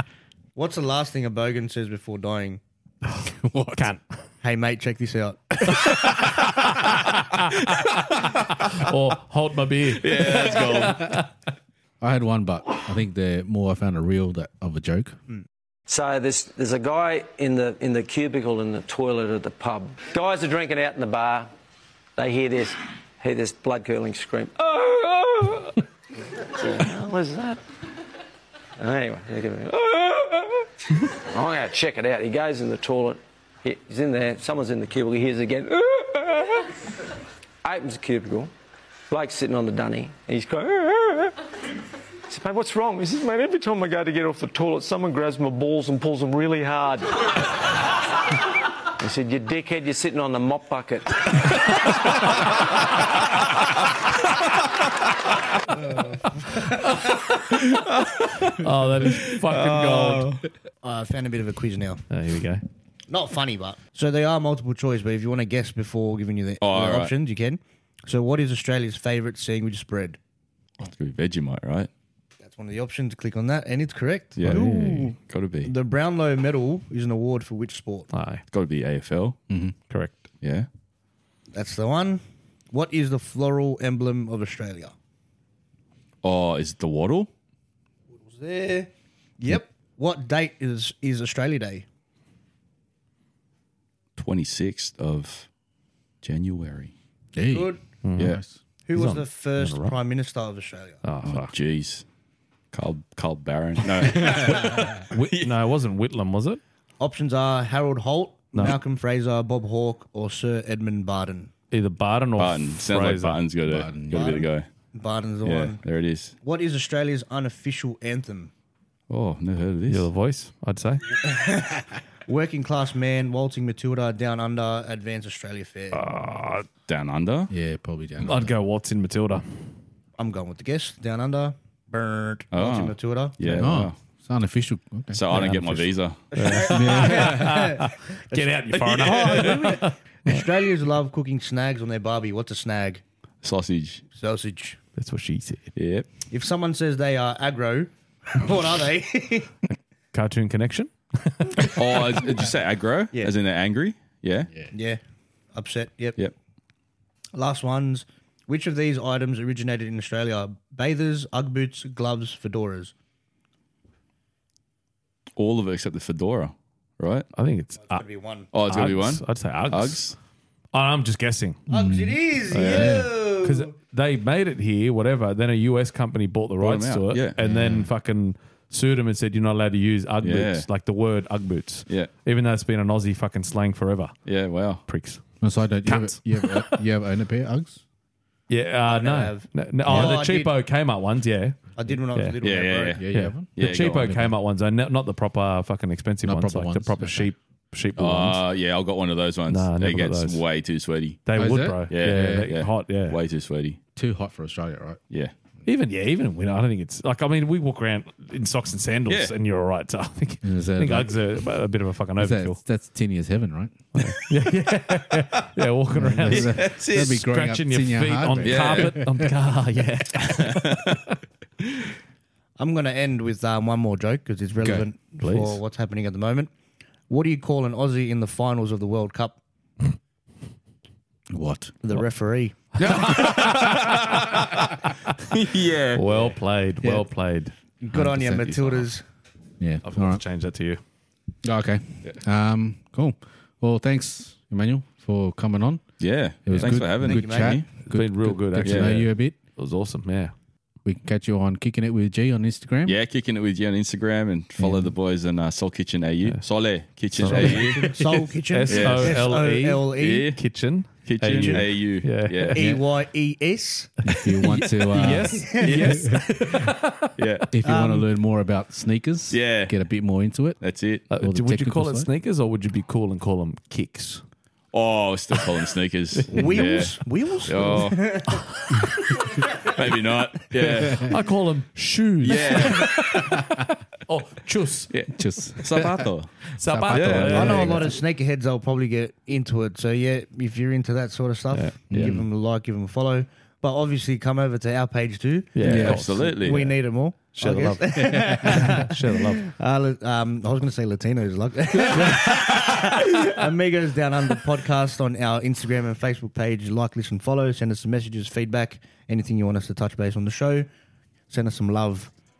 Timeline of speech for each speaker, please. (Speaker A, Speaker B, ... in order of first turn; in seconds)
Speaker A: 0.5-2.6, 4.4-6.2, 55.9-56.7, 60.8-62.0, 63.1-70.2, 72.4-78.1, 81.5-84.9, 88.1-91.8, 97.5-97.8, 98.8-101.0, 107.0-111.5, 114.1-115.8, 116.4-118.5, 121.2-126.0, 130.2-133.3, 136.3-143.0, 144.1-144.8, 146.3-149.5, 154.7-155.0, 155.5-156.2, 157.3-162.9, 167.8-168.5, 171.7-173.7, 188.8-190.5, 191.8-193.0, 222.6-226.5, 227.1-229.4, 231.8-232.6, 237.8-239.0, 246.6-247.6, 257.2-260.3, 262.5-263.9, 265.3-266.2, 267.6-268.1, 276.3-278.6, 287.2-310.7, 311.3-312.1
Speaker B: 3.1-4.0, 6.7-7.5, 8.3-11.3, 58.4-60.3, 62.1-62.6, 74.5-75.0, 78.1-78.4, 79.9-80.2, 98.0-98.4, 98.9-99.9, 101.0-101.5, 104.2-106.6, 111.7-113.4, 119.9-121.1, 125.9-126.7, 128.2-129.4, 133.4-133.8, 135.3-140.4, 144.9-145.7, 150.1-152.0, 167.3-170.1, 170.7-171.6, 172.5-184.1, 184.9-185.2, 185.8-186.8, 188.5-192.4, 193.1-198.4, 199.5-200.4, 201.2-203.2, 205.6-212.6, 213.9-221.0, 225.2-225.6, 232.8-234.4, 235.9-237.5, 239.8-240.8, 247.8-250.3, 257.1-262.6, 264.1-267.1, 271.1-274.2, 276.1-276.6, 278.3-279.1, 280.6-283.4, 284.1-284.9, 286.5-287.9, 295.5-296.7, 297.3-299.4, 301.9-302.2
Speaker C: 3.4-3.9, 12.0-15.2, 74.5-75.1, 79.5-79.7, 97.3-98.5, 113.6-114.3, 127.5-128.5, 133.6-135.2, 136.5-137.7, 171.7-173.1, 177.4-177.9, 185.4-187.8, 189.8-190.2, 193.0-194.3, 196.2-197.3, 201.3-202.5, 203.9-205.0, 210.4-211.4, 212.2-213.8, 215.9-219.3, 224.6-224.9, 231.3-231.8, 237.9-238.9, 239.6-240.2, 241.4-249.3, 250.8-253.0, 254.6-254.9, 262.6-262.8, 264.0-265.7, 267.5-272.1, 285.1-285.9, 286.6-288.0, 291.9-292.2, 295.6-296.2, 297.9-298.6
Speaker D: 10.0-11.2, 57.4-60.4, 66.6-67.1, 70.8-71.9, 74.3-74.6, 75.2-75.7, 78.5-79.4, 80.4-80.7, 86.2-87.3, 94.2-95.5, 96.2-96.9, 101.2-102.0, 102.7-105.5, 112.4-114.7, 115.4-116.3, 119.1-120.1, 126.9-127.5, 132.5-133.9, 135.1-136.2, 138.7-139.7, 143.4-144.0, 145.8-146.1, 151.7-154.5, 165.3-167.3, 168.5-170.1, 172.5-172.9, 176.6-177.4, 180.2-180.7, 184.2-184.8, 192.4-193.0, 193.5-194.2, 198.0-201.2, 201.9-203.8, 209.1-209.3, 216.3-217.2, 218.4-219.0, 220.2-221.0, 232.8-234.6, 235.2-236.0, 246.0-247.7, 248.6-248.9, 252.8-258.0, 258.7-259.3, 260.0-260.4, 261.0-262.7, 265.6-266.3, 267.1-267.5, 269.3-269.7, 270.6-271.1, 274.7-278.2, 279.6-281.1, 282.2-283.4, 284.9-286.3, 286.9-287.5, 295.6-296.7
Speaker E: 15.9-21.5, 22.2-25.8, 26.4-27.6, 28.8-36.8, 37.6-38.5, 39.1-41.3, 42.3-47.7, 49.0-51.9